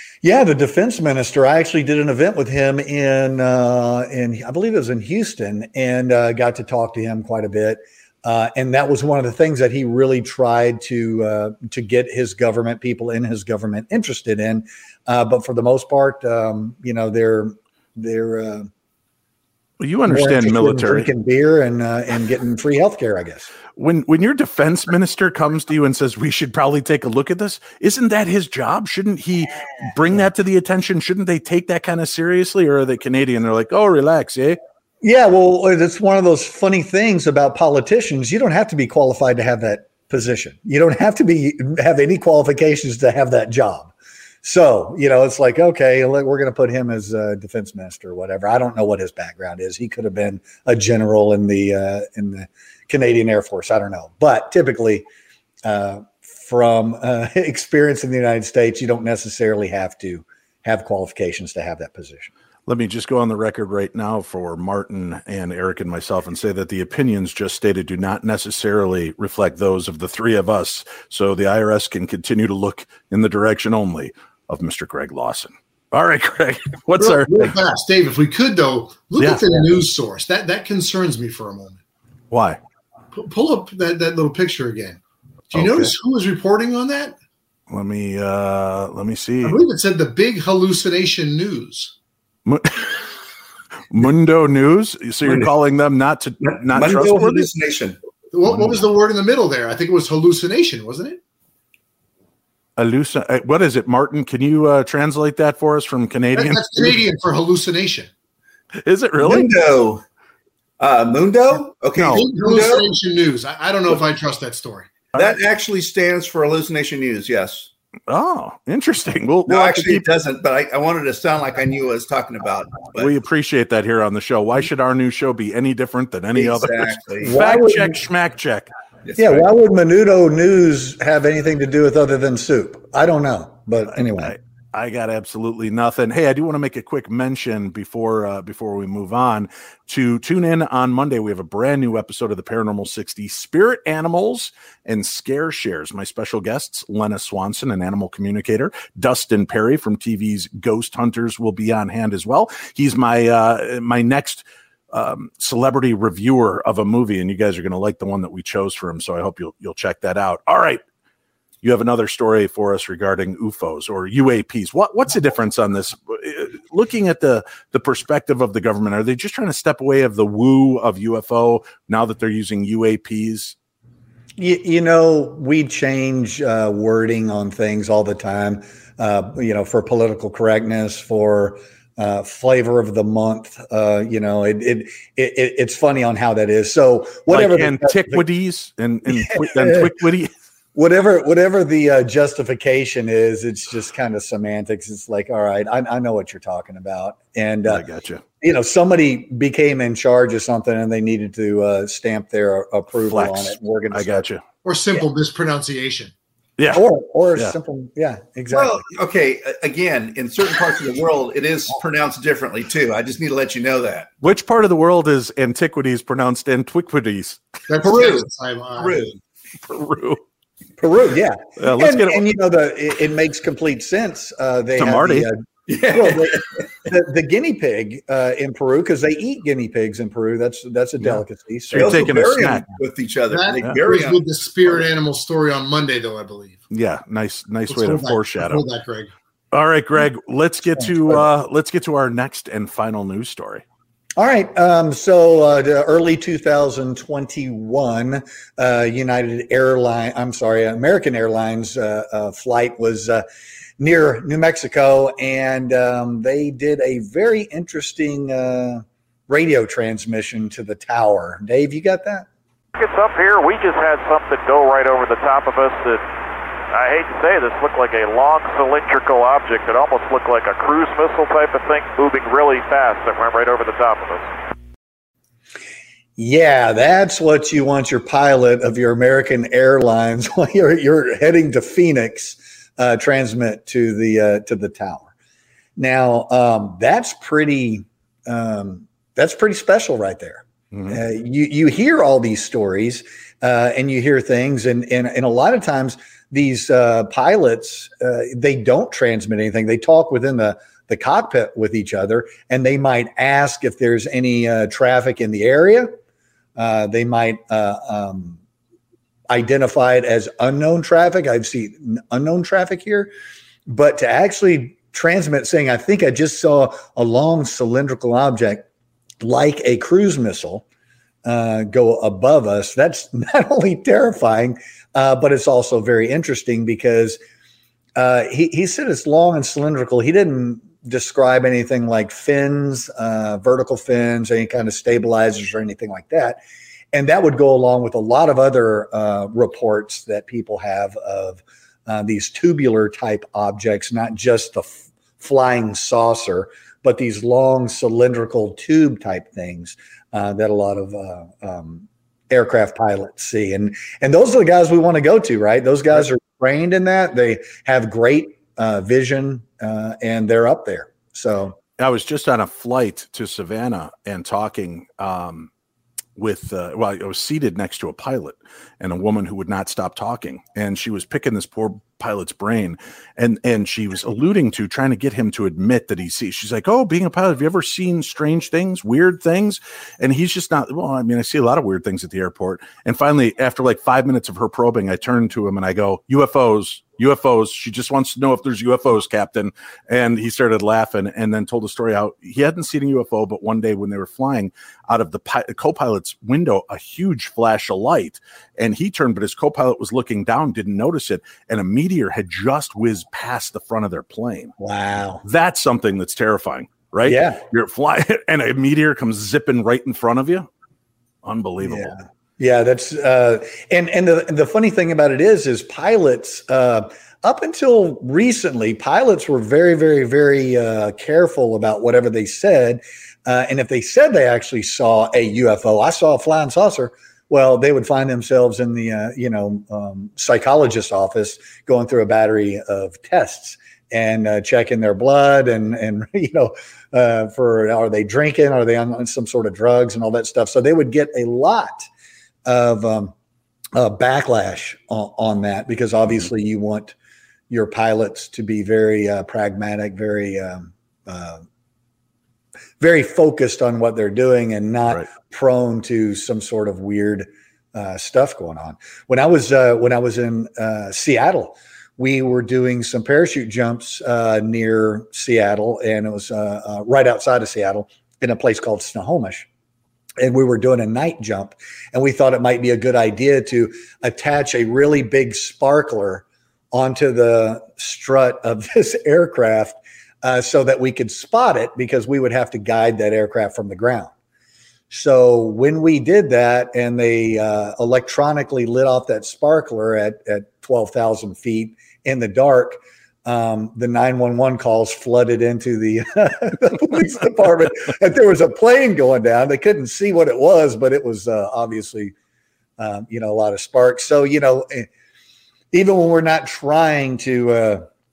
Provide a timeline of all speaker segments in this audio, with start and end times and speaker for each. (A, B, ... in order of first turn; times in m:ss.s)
0:00.2-0:18.7 A
0:19.8-0:21.1 B
0:20.1-0:23.5 A
0:23.8-0:34.6 B
0:35.0-0:55.0 A
0:55.6-1:02.3 A
1:02.7-1:17.5 B
1:17.0-1:21.8 C
1:19.2-1:19.4 B
1:22.3-1:22.6 B
1:23.1-1:25.0 C
1:25.5-1:27.1 C
1:25.5-1:25.9 B
1:27.7-1:29.6 B
1:29.4-1:31.9 C
1:32.4-1:33.1 B
1:33.9-1:37.5 B
1:35.2-1:35.5 D
1:36.4-1:38.0 D
1:38.3-1:41.2 C
1:38.5-1:38.8 B
1:42.8-1:46.9 B
1:46.3-1:48.1 C
1:48.8-1:49.5 B
1:49.2-1:50.0 D
1:50.8-1:52.9 D
1:51.9-1:52.2 B
1:52.1-1:54.9 C
1:55.1-1:57.7 D
1:58.1-2:00.0 B
1:59.5-2:03.1 D
2:02.9-2:08.7 B
2:06.4-2:07.4 D
2:07.2-2:08.0 A
2:09.0-2:09.4 D
2:09.2-2:14.3 A
2:13.9-2:40.8 B
2:41.6-2:53.6 B
2:54.4-3:08.3 A
3:07.3-3:10.3 B
3:09.1-3:09.9 A
3:10.7-3:17.8 A
3:17.7-3:18.2 B
3:18.4-3:24.3 A
3:23.1-3:24.4 B
3:24.6-3:26.1 C
3:26.6-3:26.8 B
3:26.7-3:28.8 A
3:28.5-3:34.1 D
3:34.2-3:37.4 B
3:37.7-3:39.1 C
3:37.8-3:39.1 D
3:39.7-3:40.2 B
3:40.8-3:45.4 A
3:41.6-3:42.2 B
3:44.8-3:45.3 B
3:45.7-3:46.4 D
3:45.9-3:52.2 A
3:51.0-3:52.7 B
3:51.7-3:54.8 D
3:53.3-3:56.6 C
3:56.7-3:58.6 B
3:57.7-3:59.1 C
3:59.5-4:03.6 B
4:04.2-4:13.2 A
4:13.8-4:22.3 A
4:22.7-4:26.0 E
4:26.7-4:34.3 E
4:36.2-4:45.1 A
4:45.8-5:05.9 A
4:50.7-4:51.0 B
5:06.6-5:08.4 A
5:09.3-5:13.1 A
5:13.7-5:18.7 A
5:19.2-5:20.6 A
5:21.2-5:27.2 A
5:28.0-5:36.4 A
5:36.9-6:01.6 A
6:01.8-6:05.5 B
6:06.2-6:44.5 B
6:44.6-6:45.2 A
6:45.2-6:50.5 B
6:47.0-6:47.4 A
6:51.2-6:52.0 B
6:51.6-7:21.9 A
7:22.4-7:23.1 A
7:23.7-7:26.9 A
7:27.5-7:31.4 A
7:32.8-7:49.5 A
7:50.2-8:04.1 A
8:04.9-8:22.1 A
8:22.8-8:24.9 A
8:25.7-8:27.8 A